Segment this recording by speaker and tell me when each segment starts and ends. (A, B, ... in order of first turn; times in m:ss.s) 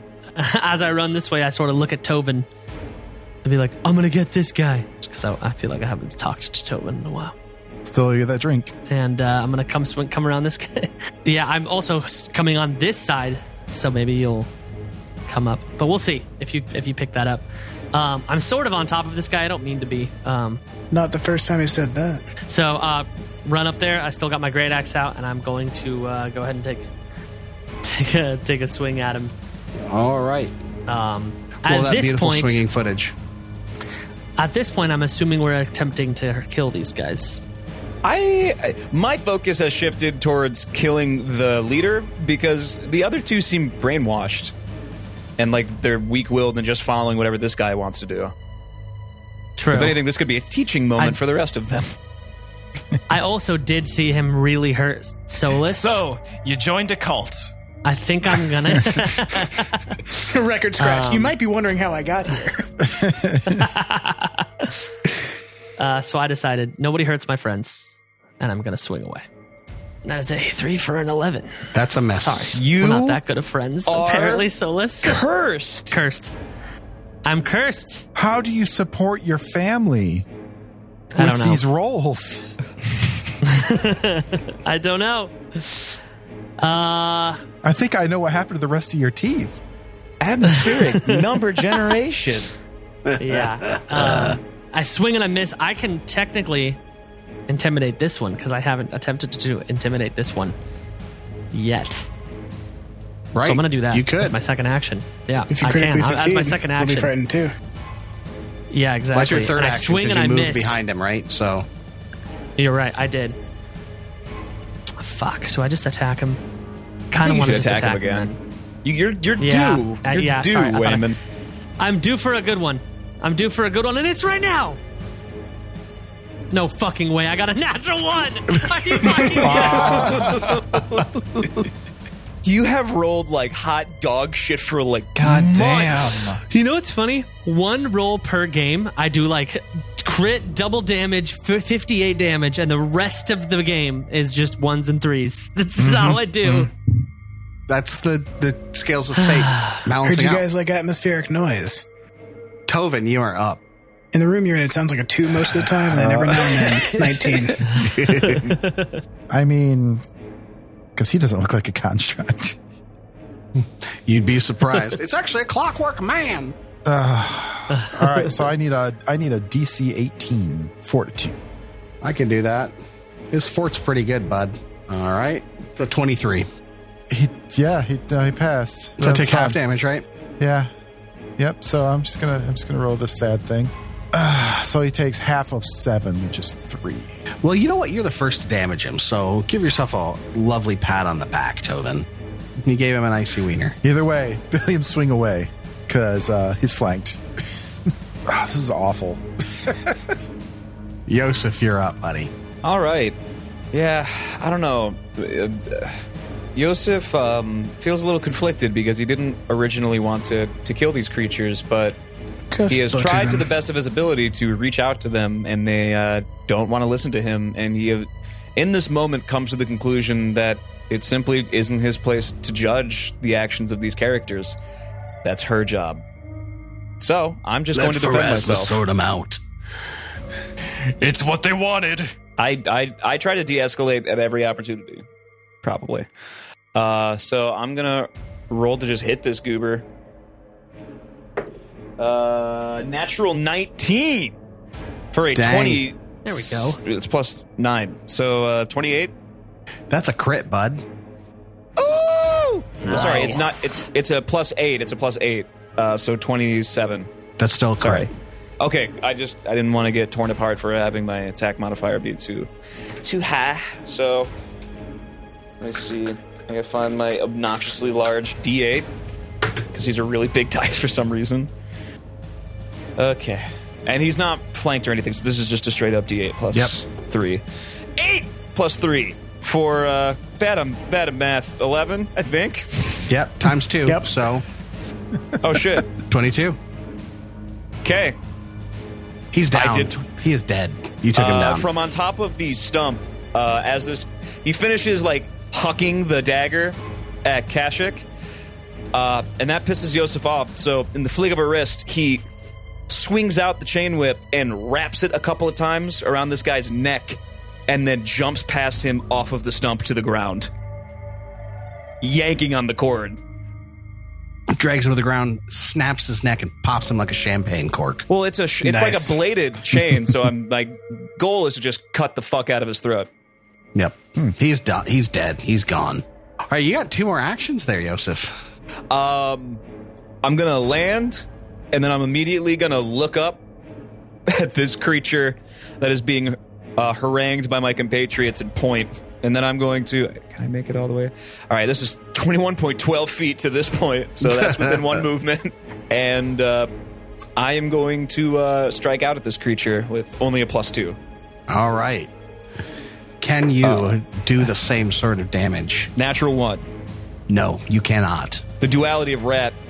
0:00.4-0:02.5 A
0:03.4-0:07.3 A
0:07.8-0:08.7 B
0:08.9-0:14.5 A
0:15.3-0:20.6 A
0:20.9-0:22.2 C
0:22.5-0:26.9 A
0:27.8-0:29.3 A
0:29.8-0:30.5 D
0:30.9-0:32.6 A
0:31.6-0:33.1 D
0:34.4-0:37.4 A
0:38.0-0:44.5 E
0:45.4-0:48.3 E
0:49.6-0:50.0 A
0:49.7-0:51.9 E
0:53.1-0:56.0 A
0:55.6-0:57.5 F
0:57.8-0:59.9 A
1:00.2-1:02.6 C
1:00.8-1:01.3 A
1:02.8-1:03.7 B
1:03.5-1:04.8 A
1:05.8-1:09.2 A
1:10.0-1:15.2 A
1:11.7-1:12.6 D
1:12.5-1:13.2 E
1:13.8-1:14.5 E
1:15.0-1:16.0 E
1:15.9-1:16.3 A
1:17.2-1:18.0 A
1:18.2-1:20.3 B
1:21.1-1:21.6 A
1:21.2-1:22.5 B
1:23.4-1:26.0 A
1:26.6-1:27.4 A
1:27.6-1:29.6 B
1:30.2-1:32.5 E
1:30.5-1:31.2 A
1:33.1-1:34.4 D
1:33.2-1:36.8 A
1:37.5-1:40.6 A
1:41.5-1:42.1 A
1:43.3-1:44.3 D
1:43.4-1:47.1 A
1:45.5-1:47.5 C
1:48.7-1:50.8 A
1:49.1-1:51.6 D
1:52.6-1:53.4 A
1:55.0-1:56.4 A
1:57.1-1:58.4 A
1:57.2-1:58.3 E
1:58.8-2:01.2 E
1:59.4-2:01.0 A
2:01.8-2:04.8 A
2:06.5-2:11.1 A
2:09.4-2:10.6 F
2:09.6-2:10.4 B
2:12.4-2:16.3 E
2:15.2-2:16.4 F
2:16.5-2:26.7 A
2:25.8-2:26.7 F
2:27.7-2:30.4 D
2:30.0-2:31.8 C
2:32.7-2:33.6 D
2:34.1-2:37.6 C
2:35.8-2:37.2 B
2:37.7-2:38.6 D
2:38.2-2:39.0 A
2:39.3-2:40.0 B
2:41.0-2:42.6 B
2:43.6-2:46.5 D
2:46.8-2:51.3 B
2:47.7-2:48.0 A
2:52.0-2:52.7 D
2:53.3-2:56.5 D
2:57.1-2:59.6 B
2:59.0-3:00.0 D
3:00.4-3:00.7 B
3:01.4-3:07.2 B
3:07.4-3:12.1 D
3:12.6-3:13.8 D
3:13.8-3:17.2 B
3:18.3-3:20.1 B
3:21.1-3:22.3 D
3:22.6-3:23.2 E
3:23.7-3:26.0 E
3:26.6-3:32.0 E
3:32.5-3:33.5 C
3:32.7-3:44.6 E
3:45.2-3:46.0 E
3:47.0-3:48.8 E
3:47.7-3:49.4 D
3:51.0-3:52.1 F
3:52.4-3:55.0 E
3:55.6-3:56.1 E
3:56.7-3:59.8 E
4:02.0-4:04.4 E
4:05.1-4:09.1 E
4:05.3-4:05.8 D
4:06.2-4:06.8 A
4:09.9-4:10.8 D
4:11.8-4:17.1 E
4:12.8-4:13.4 A
4:12.9-4:13.4 D
4:17.4-4:18.1 D
4:17.8-4:22.5 E
4:23.0-4:24.3 E
4:25.6-4:28.9 E
4:29.7-4:31.5 E
4:33.0-4:37.4 E
4:38.0-4:43.1 E
4:43.1-4:44.4 D
4:45.4-4:45.9 E
4:46.1-4:46.6 D
4:47.8-4:48.2 E
4:49.3-4:51.7 D
4:49.5-4:49.9 E
4:51.1-4:58.1 E
4:58.9-5:02.2 E
5:02.9-5:10.5 E
5:12.0-5:13.2 E
5:14.5-5:18.0 D
5:18.1-5:23.1 E
5:18.6-5:19.2 C
5:23.7-5:28.3 D
5:28.9-5:29.6 E
5:30.2-5:33.4 E
5:34.3-5:46.7 E
5:44.2-5:45.0 D
5:47.4-5:51.0 E
5:51.5-5:52.1 D
5:53.2-5:55.9 D
5:53.6-5:53.9 E
5:56.0-5:56.6 E
5:57.3-5:58.4 D
5:58.6-5:59.6 E